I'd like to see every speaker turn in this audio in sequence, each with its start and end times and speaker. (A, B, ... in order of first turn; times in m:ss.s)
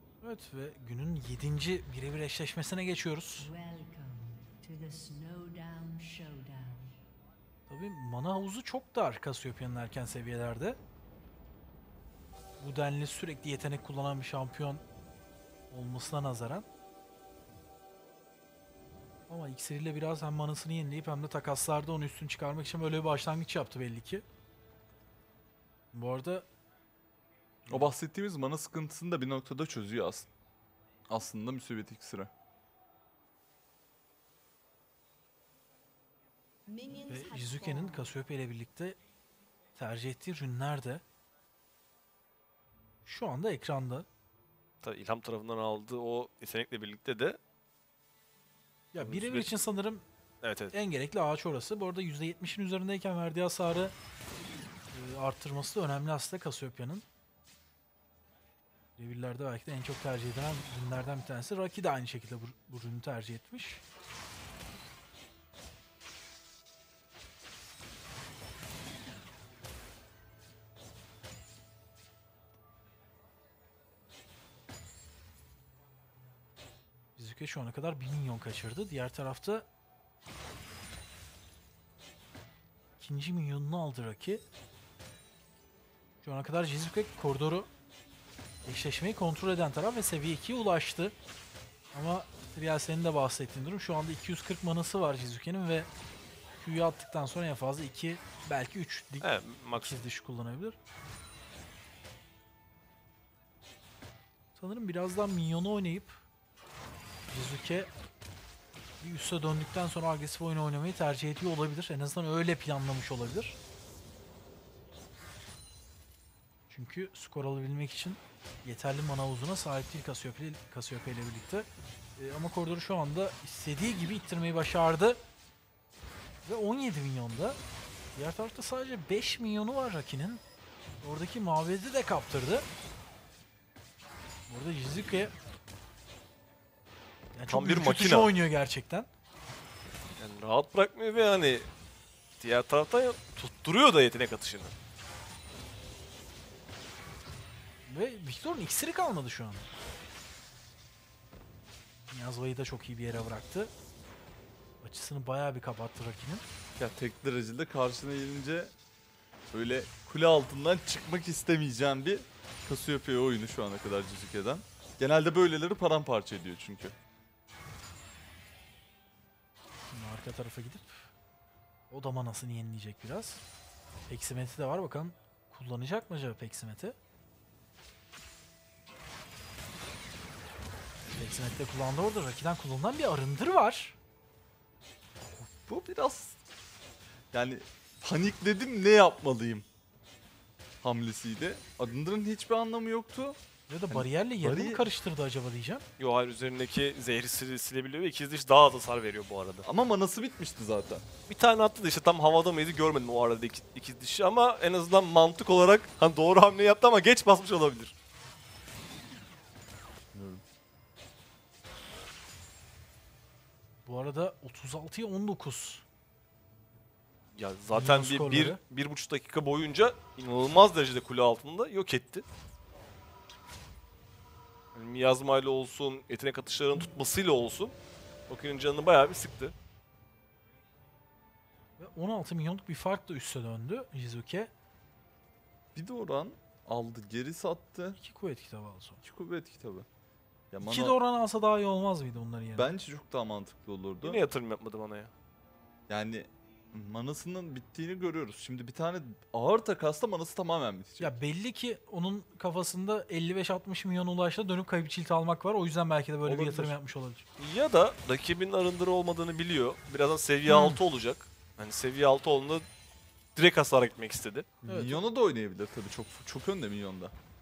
0:00.2-0:03.5 A
0:03.4-0:06.9 B
0:07.7-0:10.8 A
0:12.6-0:14.8 A
0:15.7-0:16.7 A
0:19.3-0:24.2 A
0:25.9-0:26.5 A
0:27.7-0:30.3 C
0:31.1-0:32.3 C
0:36.7-0:38.1 B
0:37.1-0:39.0 A
0:39.8-0:41.0 A
0:43.0-0:44.1 A
0:44.8-0:47.4 D
0:48.9-0:50.1 A
0:49.0-0:49.5 D
0:50.4-0:50.8 D
0:50.7-0:54.0 A
0:54.9-0:57.1 A
0:59.0-1:03.8 A
1:17.2-1:19.7 A
1:23.0-1:24.4 A
1:26.2-1:27.7 A
1:28.6-1:31.2 A
1:31.9-1:35.9 A
1:36.6-1:40.8 A
1:39.2-1:40.0 D
1:44.6-1:46.2 A
1:47.3-1:47.9 A
1:49.0-1:53.6 A
1:56.7-2:05.2 A
2:06.4-2:07.6 A
2:08.2-2:10.4 A
2:11.0-2:12.7 A
2:14.5-2:15.4 A
2:17.4-2:19.1 A
2:17.5-2:18.3 D
2:20.2-2:21.7 D
2:22.4-2:24.7 D
2:27.9-2:29.7 A
2:32.1-2:33.7 A
2:34.8-2:36.5 A
2:36.8-2:38.7 C
2:39.5-2:46.9 C
2:49.9-2:51.1 A
2:51.9-2:53.4 A
2:54.1-2:57.0 A
3:01.1-3:04.0 A
3:05.4-3:06.4 C
3:07.3-3:09.7 C
3:10.8-3:13.4 C
3:13.7-3:15.8 A
3:13.9-3:14.9 C
3:16.0-3:19.7 D
3:19.6-3:21.0 C
3:21.3-3:28.0 D
3:30.1-3:30.4 C
3:33.8-3:35.8 A
3:37.4-3:42.2 D
3:37.7-3:38.6 A
3:44.7-3:47.8 D
3:48.3-3:49.5 D
3:51.8-3:54.5 A
3:55.8-3:58.0 C
3:58.0-3:59.0 A
3:59.0-3:59.9 C
4:00.5-4:01.0 C
4:00.6-4:02.7 A
4:02.6-4:04.2 C
4:04.0-4:05.1 D
4:05.9-4:11.1 C
4:11.0-4:17.2 A
4:16.2-4:16.8 D
4:17.4-4:22.7 D
4:20.5-4:20.8 A
4:23.4-4:24.5 D
4:24.6-4:27.1 C
4:24.7-4:25.1 A